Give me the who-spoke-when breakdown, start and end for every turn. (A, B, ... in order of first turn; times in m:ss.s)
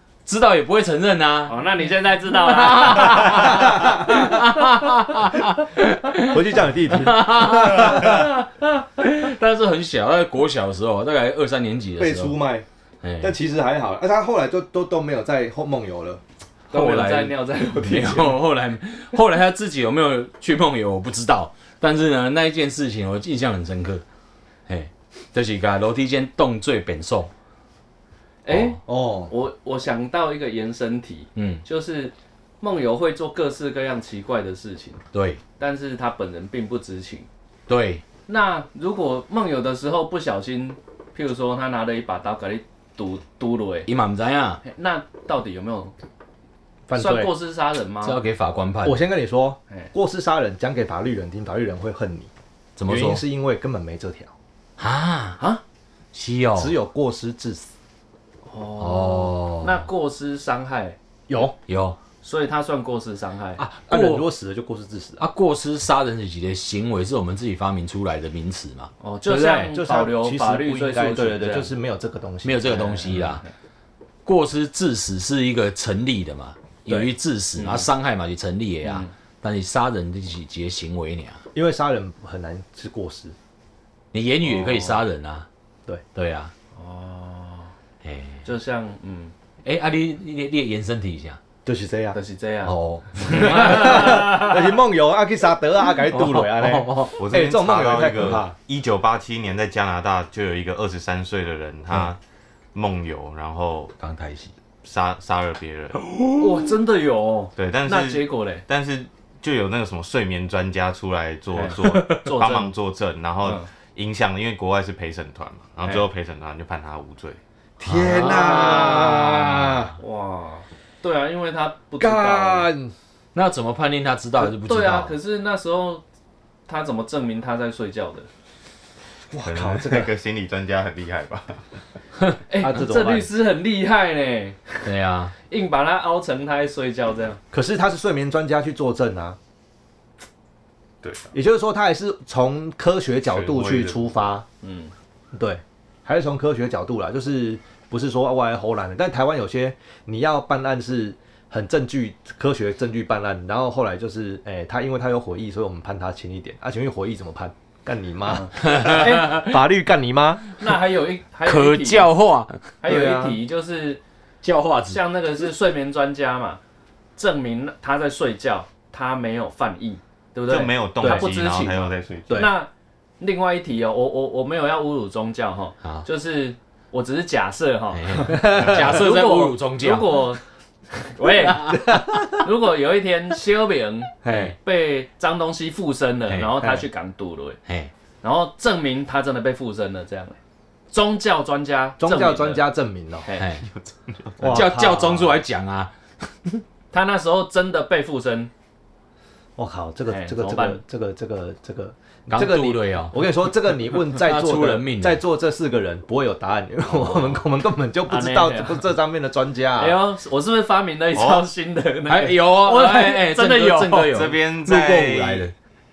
0:00.2-0:01.6 A
0:01.5-0:03.8 B
0:02.5-0:06.4 A
0:06.2-0:08.3 C
0:06.9-0:12.4 A
0:12.0-0:12.6 C
0:13.0-0:13.3 A
0:13.2-0:16.2 C
0:16.7-0:18.4 B
0:16.7-0:24.0 A
0:24.7-0:27.3 A
0:28.4-0:35.0 B
0:28.5-0:28.8 A
0:28.8-0:29.3 C
0:31.4-0:31.6 A
0:35.1-0:35.4 A
0:35.6-0:37.3 B
0:37.7-0:38.0 A
0:38.3-0:43.9 B
0:43.8-0:44.6 A
0:44.6-0:45.9 B
0:46.9-0:47.3 C
0:46.9-0:48.2 B
0:48.0-0:49.0 A
0:48.8-0:52.3 C
0:52.8-0:53.2 A
0:52.9-0:54.3 C
0:54.8-0:55.4 A
0:56.1-0:56.8 A
0:56.5-0:57.7 C
0:58.4-1:01.0 B
0:58.8-0:59.8 A
1:01.3-1:01.6 C
1:01.7-1:02.0 A
1:02.2-1:03.6 B
1:03.6-1:04.2 A
1:03.8-1:05.2 C
1:05.2-1:08.9 A
1:09.0-1:11.7 B
1:09.3-1:12.9 C
1:12.4-1:13.4 A
1:12.7-1:13.5 B
1:14.2-1:21.4 A
1:17.6-1:17.9 B
1:18.8-1:19.1 B
1:21.5-1:23.3 C
1:24.1-1:25.4 A
1:24.6-1:24.9 B
1:26.1-1:26.5 A
1:26.7-1:27.7 B
1:28.0-1:28.4 A
1:28.4-1:29.3 B
1:29.6-1:31.4 A
1:31.6-1:32.2 C
1:32.1-1:34.6 B
1:32.6-1:34.2 A
1:33.3-1:38.5 C
1:36.1-1:37.2 A
1:37.2-1:42.2 D
1:42.7-1:43.9 D
1:44.0-1:44.5 A
1:44.8-1:46.0 D
1:46.0-1:46.6 A
1:46.4-1:48.6 B
1:47.6-1:57.4 D
1:51.5-1:52.7 B
1:53.4-1:53.7 B
1:57.8-1:59.9 C
1:57.8-1:59.8 A
1:58.1-1:59.2 B
2:00.0-2:02.7 B
2:02.0-2:02.9 C
2:03.3-2:05.1 A
2:04.4-2:06.0 B
2:06.7-2:08.3 B
2:09.3-2:10.1 C
2:09.4-2:11.8 D
2:12.5-2:14.8 B
2:12.6-2:13.3 C
2:14.8-2:15.3 A
2:15.5-2:17.4 B
2:17.5-2:19.4 C
2:21.0-2:21.3 D
2:21.3-2:24.4 C
2:23.3-2:24.1 D
2:24.6-2:24.9 B
2:25.3-2:40.4 C
2:38.4-2:39.2 B
2:38.6-2:39.5 A
2:40.6-2:42.1 B
2:41.4-2:42.6 A
2:42.8-2:44.0 B
2:42.8-2:43.4 C
2:44.4-2:45.0 A
2:44.9-2:46.6 B
2:47.2-2:52.7 B
2:50.5-2:52.5 D
2:51.0-2:51.3 C
2:53.2-3:00.4 B
2:57.9-3:00.2 A
2:58.3-2:58.9 C
3:01.0-3:07.6 B
3:01.7-3:02.4 C
3:04.2-3:04.5 C
3:04.3-3:04.5 A
3:06.3-3:06.5 A
3:06.6-3:06.8 C
3:08.2-3:10.4 B
3:10.9-3:12.7 B
3:12.0-3:13.3 C
3:13.2-3:13.5 B
3:13.4-3:13.6 A
3:13.6-3:14.6 D
3:14.4-3:15.4 C
3:14.5-3:16.6 A
3:16.9-3:18.5 B
3:19.6-3:30.0 C
3:20.1-3:20.8 B
3:22.3-3:23.2 A
3:24.0-3:25.2 A
3:26.9-3:27.4 B
3:28.1-3:28.8 B
3:29.8-3:34.3 B
3:31.1-3:31.4 D
3:32.1-3:35.5 A
3:34.1-3:35.5 D